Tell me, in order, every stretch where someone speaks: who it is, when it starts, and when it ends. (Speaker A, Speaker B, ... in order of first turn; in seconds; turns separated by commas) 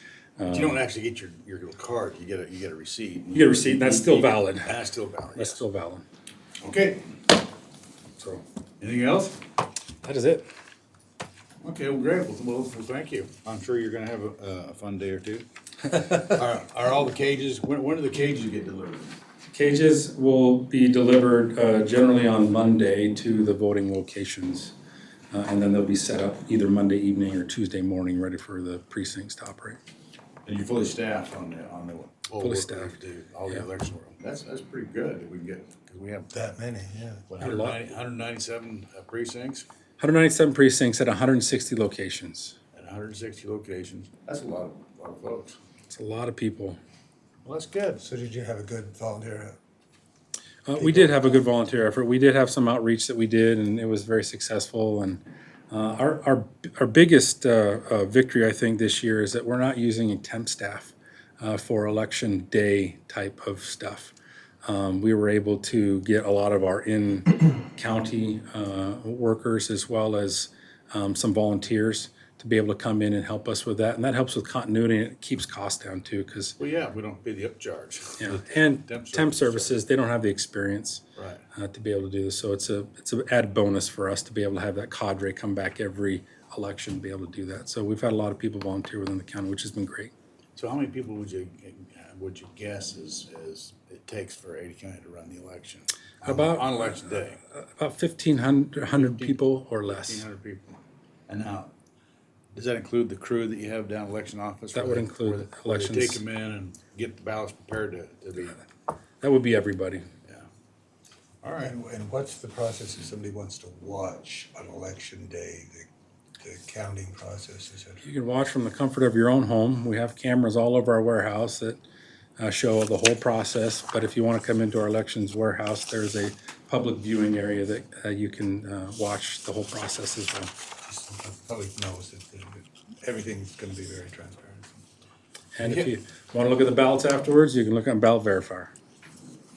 Speaker A: 0.4-0.8, Speaker B: 0.5-5.6, Speaker A: 3.3-4.7, Speaker A: 5.4-6.0, Speaker B: 6.6-7.2, Speaker B: 8.8-9.4, Speaker A: 10.0-10.5, Speaker B: 11.6-15.4, Speaker B: 16.0-19.1, Speaker A: 19.5-24.7, Speaker A: 25.3-29.8, Speaker B: 30.4-36.3, Speaker A: 32.4-33.0, Speaker C: 36.3-37.3, Speaker B: 37.3-39.7, Speaker A: 37.4-37.8, Speaker A: 40.0-42.6, Speaker B: 42.7-45.6, Speaker A: 45.9-46.8, Speaker B: 47.5-48.1, Speaker C: 48.0-49.6, Speaker A: 50.7-64.1, Speaker C: 50.8-51.4, Speaker A: 64.7-76.6, Speaker B: 76.6-79.8, Speaker A: 78.2-81.0, Speaker B: 81.2-81.4, Speaker A: 81.5-90.1, Speaker B: 90.6-97.4, Speaker A: 96.2-97.0, Speaker A: 97.5-100.2, Speaker B: 99.0-101.7, Speaker B: 102.5-108.6, Speaker A: 104.7-106.2, Speaker A: 109.2-110.0, Speaker B: 111.4-111.7, Speaker C: 111.6-115.9, Speaker C: 116.4-118.0, Speaker A: 118.0-121.8, Speaker A: 122.4-130.5, Speaker C: 130.9-134.8, Speaker A: 135.6-138.7, Speaker B: 135.6-135.9